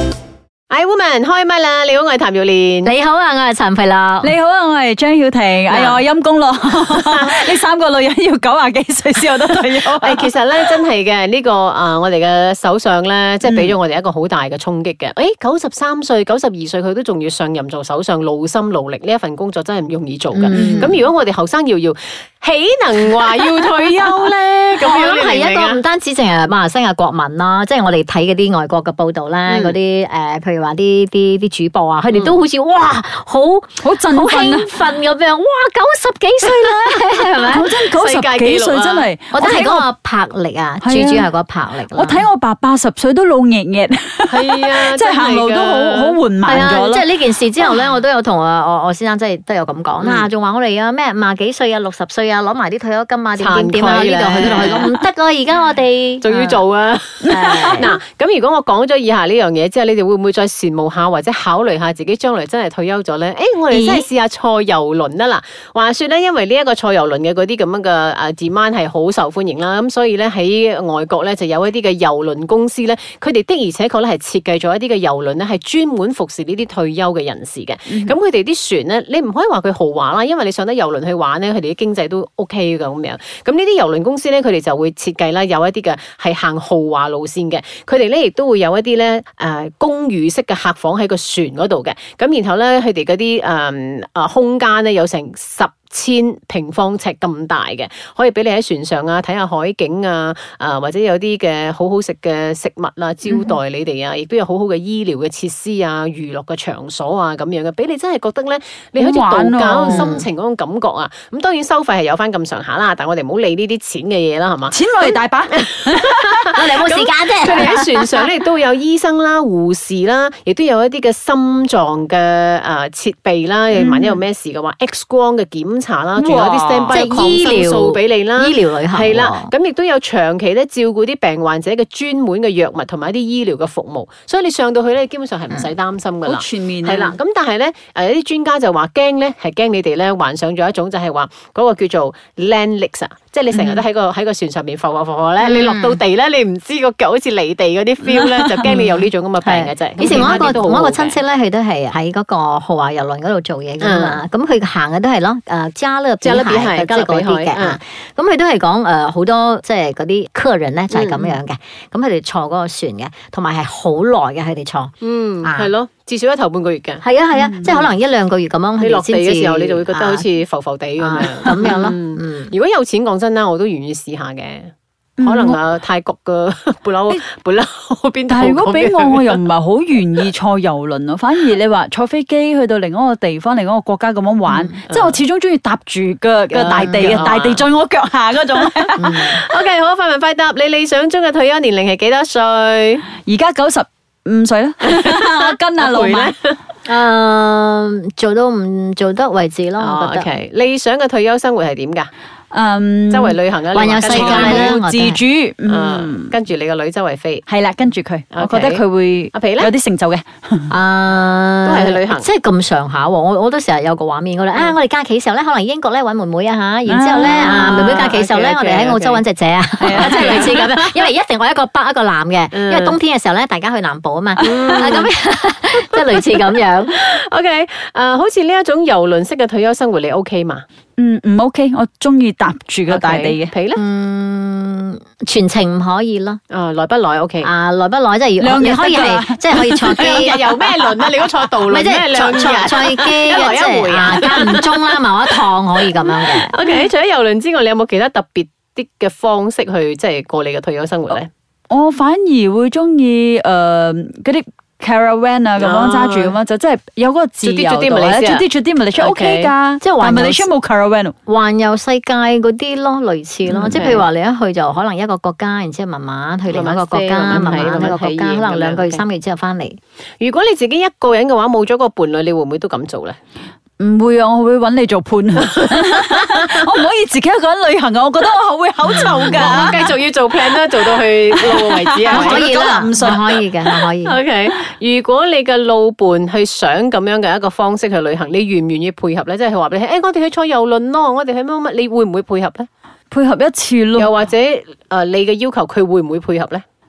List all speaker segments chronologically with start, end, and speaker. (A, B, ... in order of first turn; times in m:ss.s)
0:00.7-0:02.9 A
0:02.8-0:04.3 B
0:04.2-0:10.3 C
0:07.1-0:07.5 A
0:09.9-0:25.8 A
0:13.4-0:13.7 C
0:20.4-0:21.0 B
0:20.5-0:21.0 C
0:24.8-0:37.7 B
0:29.5-0:29.8 A
0:32.1-0:32.4 A
0:33.8-0:34.7 C
0:37.4-0:39.1 A
0:37.5-0:39.9 C
0:39.3-0:42.3 B
0:40.8-0:41.3 C
0:41.9-0:47.1 C
0:44.3-0:46.2 A
0:46.4-0:56.6 B
0:50.0-0:50.3 A
0:53.4-0:55.1 A
0:56.2-2:31.2 A
0:57.2-0:57.9 C
0:57.3-0:57.9 B
1:03.7-1:04.0 B
1:17.9-1:18.1 C
1:49.0-1:50.1 C
1:49.8-1:50.2 B
1:54.7-1:56.5 C
1:56.5-1:58.2 B
2:03.8-2:04.2 C
2:06.2-2:07.0 C
2:06.9-2:09.5 B
2:16.3-2:17.2 C
2:23.5-2:23.8 C
2:25.4-2:26.0 B
2:28.0-2:28.8 C
2:28.7-2:45.7 B
2:30.0-2:30.5 C
2:33.8-2:34.2 A
2:36.2-2:37.8 A
2:40.9-2:41.4 A
2:45.0-2:47.0 A
2:47.0-2:50.3 B
2:47.4-2:47.7 C
2:47.6-2:47.9 A
2:48.8-2:59.4 A
2:51.0-2:52.5 B
2:55.2-2:55.6 C
2:58.3-3:09.3 C
3:04.5-3:04.8 B
3:04.9-3:05.2 A
3:06.5-3:07.7 A
3:08.6-3:13.1 A
3:09.0-3:09.4 B
3:13.1-3:16.3 C
3:14.8-3:16.6 A
3:16.9-3:20.3 B
3:19.8-3:22.1 A
3:22.5-3:23.4 C
3:23.1-3:24.8 A
3:23.7-3:25.2 B
3:24.1-3:26.3 C
3:25.7-3:27.4 A
3:27.5-3:30.7 C
3:28.3-3:29.7 A
3:30.7-3:47.0 B
3:31.7-3:32.3 A
3:36.9-3:38.1 C
3:37.2-3:39.2 A
3:39.8-3:40.6 C
3:39.9-3:41.1 A
3:42.5-3:43.0 A
3:44.4-3:45.1 A
3:44.6-3:45.0 C
3:45.9-3:50.6 A
3:51.0-3:53.5 C
3:52.9-3:53.8 A
3:53.8-3:56.4 B
3:56.5-3:57.5 A
3:57.4-4:00.4 B
3:58.4-4:00.9 C
4:00.0-4:05.0 A
4:01.7-4:06.6 B
4:06.0-4:11.3 A
4:11.7-4:21.2 C
4:15.6-4:16.4 A
4:17.4-4:18.5 A
4:19.0-4:19.5 A
4:19.8-4:20.5 B
4:21.3-4:29.8 B
4:23.5-4:24.0 A
4:26.5-4:29.0 A
4:27.3-4:27.7 C
4:30.2-4:33.2 A
4:33.8-4:39.9 C
4:35.9-4:36.2 A
4:38.9-4:39.8 B
4:39.3-4:42.4 A
4:41.7-4:43.4 C
4:42.1-4:44.2 B
4:43.8-4:52.7 A
4:53.1-4:54.1 C
4:54.0-4:56.6 A